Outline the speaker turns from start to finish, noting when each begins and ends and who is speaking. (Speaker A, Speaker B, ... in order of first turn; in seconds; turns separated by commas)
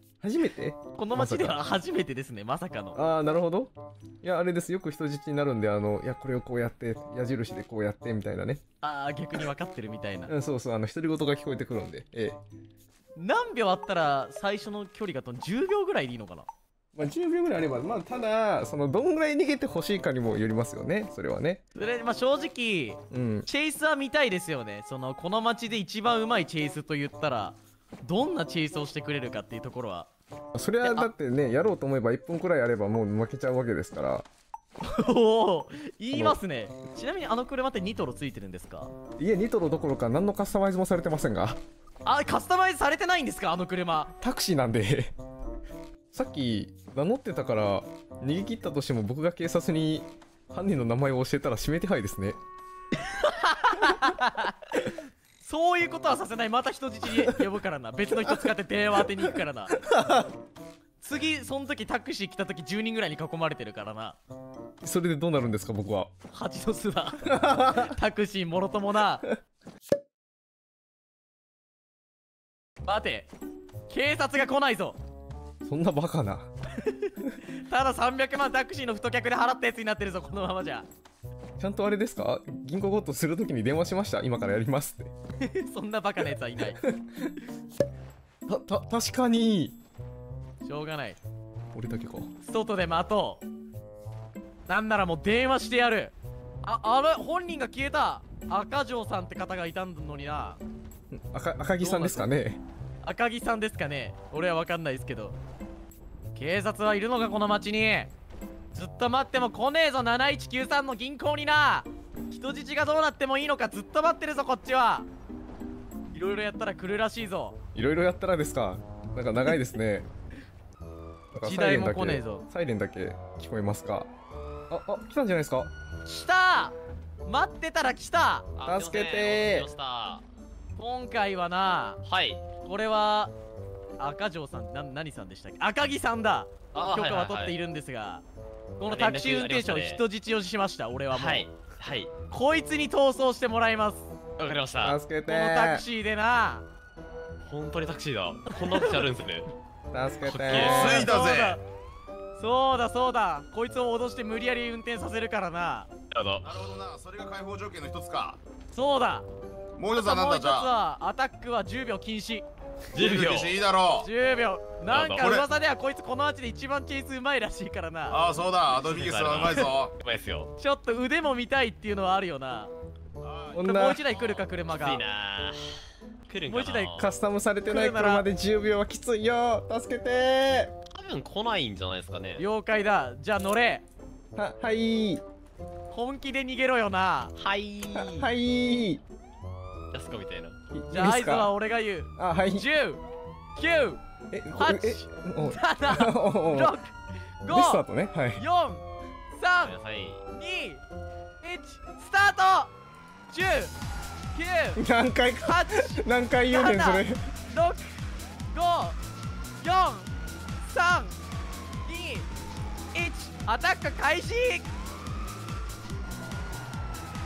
Speaker A: 0.2-1.6, Speaker B: 0.9-3.0, Speaker A: 2.9-8.6, Speaker B: 8.8-10.3, Speaker A: 10.3-12.4, Speaker B: 13.2-16.5, Speaker A: 16.9-21.6, Speaker B: 21.7-30.1, Speaker A: 23.1-23.5, Speaker A: 30.5-34.2, Speaker B: 30.8-31.1, Speaker B: 34.8-38.9, Speaker A: 36.1-36.4, Speaker A: 39.2-41.6, Speaker B: 42.0-44.1, Speaker A: 44.2-45.1, Speaker A: 46.1-52.4, Speaker B: 53.0-59.9, Speaker A: 59.7-60.3, Speaker B: 61.0-64.2, Speaker A: 64.8-66.1, Speaker B: 66.3-69.3, Speaker A: 67.3-67.9, Speaker B: 72.8-73.3, Speaker B: 73.9-75.0, Speaker A: 75.6-76.5, Speaker B: 76.8-80.9, Speaker A: 81.6-85.1, Speaker B: 85.4-86.8, Speaker A: 86.8-87.3, Speaker A: 88.5-89.8, Speaker B: 90.6-91.2, Speaker A: 91.7-92.3, Speaker B: 92.4-93.4, Speaker B: 94.7-100.6, Speaker A: 101.1-102.6, Speaker B: 101.8-102.3, Speaker B: 103.0-105.3, Speaker B: 106.3-108.1, Speaker B: 108.7-115.1, Speaker B: 116.1-117.6, Speaker A: 117.7-120.1, Speaker A: 121.3-124.1, Speaker B: 121.4-122.5, Speaker A: 124.7-125.7, Speaker B: 126.0-128.5, Speaker C: 128.6-130.2, Speaker A: 128.6-129.7, Speaker B: 130.8-132.0, Speaker C: 132.0-132.4, Speaker B: 132.6-133.3, Speaker B: 134.0-138.2, Speaker C: 136.7-137.6, Speaker B: 138.8-141.5, Speaker C: 138.8-140.0, Speaker C: 141.1-142.1, Speaker B: 142.3-144.1, Speaker C: 144.4-145.0, Speaker A: 144.8-145.8, Speaker B: 145.3-146.6, Speaker C: 147.4-149.5, Speaker A: 149.9-151.0, Speaker C: 150.2-151.1, Speaker D: 150.5-151.6, Speaker B: 150.5-151.6, Speaker B: 152.4-155.9, Speaker C: 156.1-156.7, Speaker D: 156.4-158.4, Speaker B: 158.7-159.3, Speaker D: 159.8-160.7, Speaker B: 159.9-162.4, Speaker C: 162.9-163.6, Speaker D: 162.9-164.1, Speaker B: 163.9-168.2, Speaker C: 164.9-165.4, Speaker D: 165.0-165.4, Speaker D: 168.1-169.9, Speaker C: 168.7-170.5, Speaker B: 170.6-172.7, Speaker D: 173.2-173.7, Speaker A: 173.5-174.0, Speaker B: 173.6-175.0, Speaker C: 174.1-175.6, Speaker C: 176.3-177.1, Speaker B: 176.4-177.1, Speaker A: 177.0-180.7, Speaker B: 177.6-178.2, Speaker C: 180.9-182.4, Speaker B: 182.4-183.8, Speaker A: 184.3-185.2, Speaker B: 185.9-187.3, Speaker C: 187.3-188.3, Speaker A: 187.9-189.0, Speaker C: 189.9-190.6, Speaker A: 190.7-191.5, Speaker B: 190.9-193.0, Speaker A: 192.2-192.7, Speaker B: 193.6-194.0, Speaker A: 194.3-196.8, Speaker B: 194.5-199.8, Speaker A: 197.5-198.4, Speaker C: 199.6-200.2, Speaker B: 200.3-200.8, Speaker B: 201.4-202.7, Speaker B: 203.3-203.7, Speaker B: 204.3-204.8, Speaker A: 204.8-207.2, Speaker B: 205.4-207.9, Speaker B: 208.5-209.0, Speaker B: 209.6-211.2, Speaker B: 211.8-212.3, Speaker B: 212.9-214.7